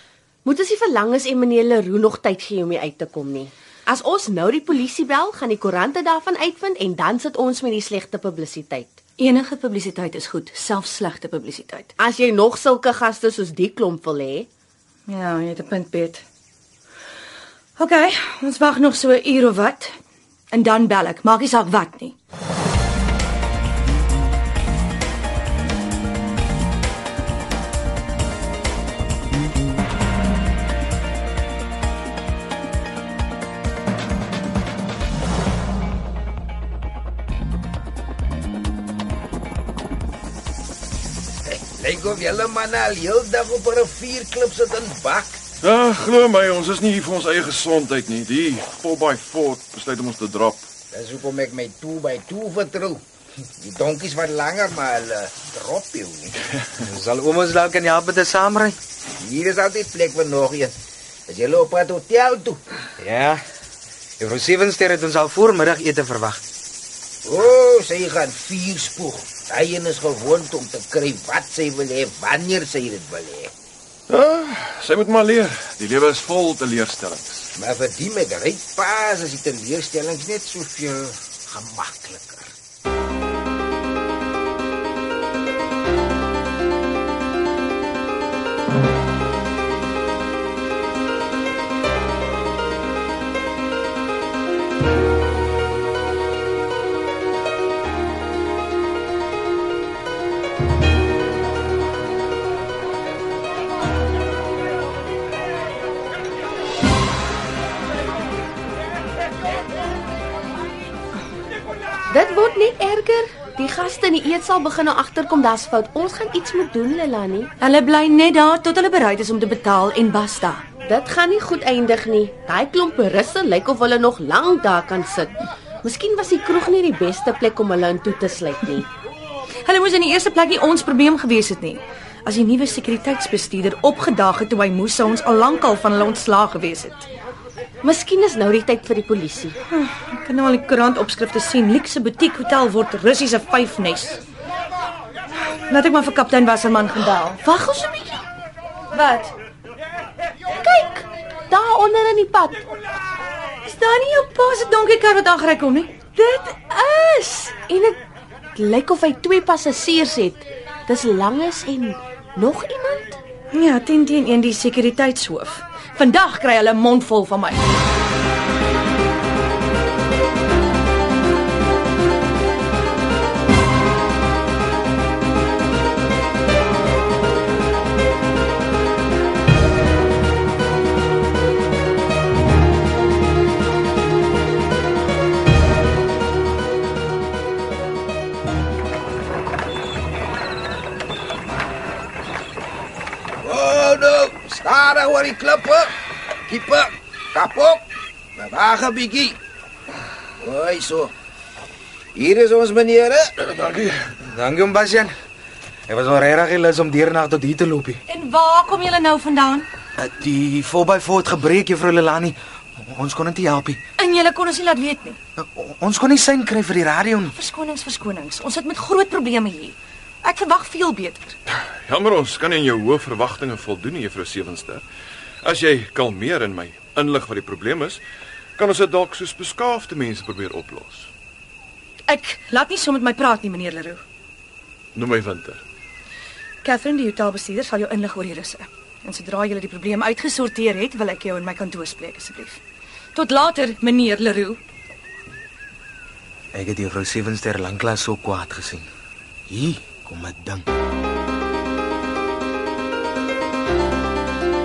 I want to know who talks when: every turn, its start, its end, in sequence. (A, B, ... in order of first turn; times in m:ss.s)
0:00.4-0:09.0 A
0:09.2-0:11.9 B
0:12.0-0:14.5 A
0:15.1-0:16.2 B
0:17.8-0:20.0 B
0:20.5-0:22.2 B
0:41.5-0:45.4 C
0:45.6-0:50.7 D
0:50.9-0:53.0 C
0:53.6-0:56.3 C
0:56.8-0:58.8 E
0:59.2-1:00.8 C
1:01.3-1:02.6 C
1:03.0-1:03.4 E
1:04.2-1:06.4 E
1:07.2-1:13.5 C
1:14.1-1:17.5 D
1:17.6-1:22.5 C
1:52.1-1:57.5 A
1:57.6-2:00.6 B
2:00.9-2:08.9 A
2:09.6-2:17.1 B
2:17.8-2:19.6 A
2:19.7-2:24.2 B
2:25.7-2:27.4 B
2:27.4-2:28.3 A
2:28.9-2:29.3 B
2:30.5-2:32.6 A
2:33.6-2:37.6 B
2:37.7-2:38.0 A
2:38.6-2:43.2 A
2:43.5-2:47.6 B
3:13.4-3:15.9 C
3:16.5-3:17.8 C
3:18.4-3:19.4 C
3:20.4-3:21.1 C
3:22.2-3:24.0 C
3:24.2-3:25.1 E
3:25.9-3:28.0 E
3:28.1-3:29.7 B
3:30.0-3:33.8 E
3:34.0-3:35.2 B
3:35.4-3:37.3 E
3:37.3-3:41.4 B
3:41.5-3:44.9 D
3:45.4-3:48.0 D
3:48.6-3:51.1 D
3:52.1-3:54.0 B
3:55.0-3:55.6 D
3:56.6-4:02.6 B
4:03.1-4:04.6 B
4:06.5-4:08.9 E
4:09.5-4:10.7 E